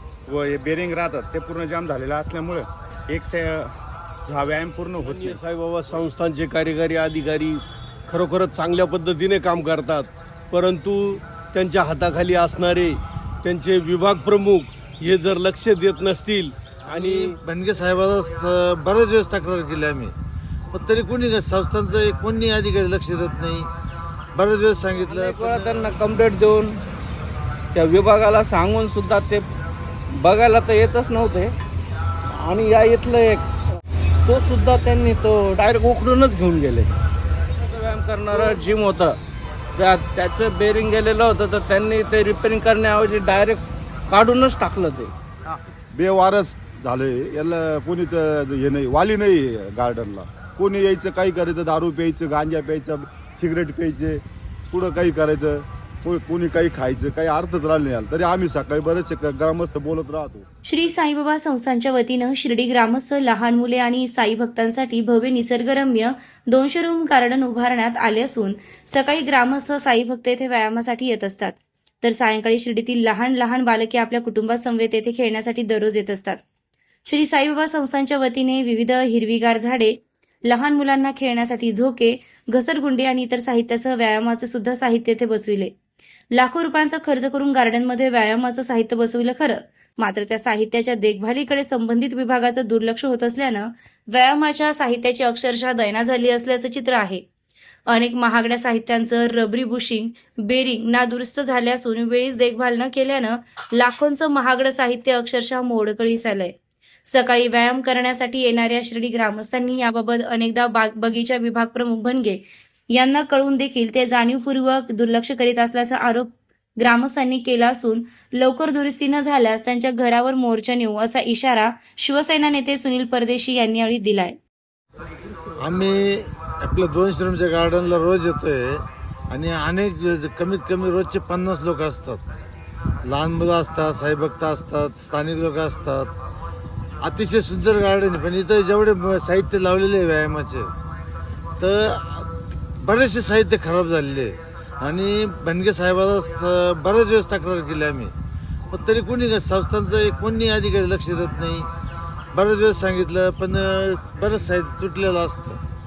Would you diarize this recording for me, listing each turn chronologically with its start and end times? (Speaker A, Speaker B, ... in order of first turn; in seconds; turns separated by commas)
Speaker A: 0.3-5.4, Speaker B: 5.0-17.4, Speaker C: 16.9-20.1, Speaker C: 20.7-23.7, Speaker C: 24.3-25.9, Speaker D: 25.0-26.8, Speaker D: 27.7-29.4, Speaker D: 30.1-31.5, Speaker D: 32.3-33.5, Speaker D: 34.2-37.0, Speaker D: 37.6-39.2, Speaker D: 39.8-45.1, Speaker E: 45.9-60.5, Speaker F: 60.6-76.4, Speaker F: 77.0-85.7, Speaker F: 86.3-97.2, Speaker F: 97.9-106.5, Speaker F: 107.1-124.4, Speaker C: 125.6-132.2, Speaker C: 133.1-136.1, Speaker C: 137.0-140.7, Speaker C: 141.6-148.1, Speaker C: 148.7-151.7, Speaker C: 152.3-155.6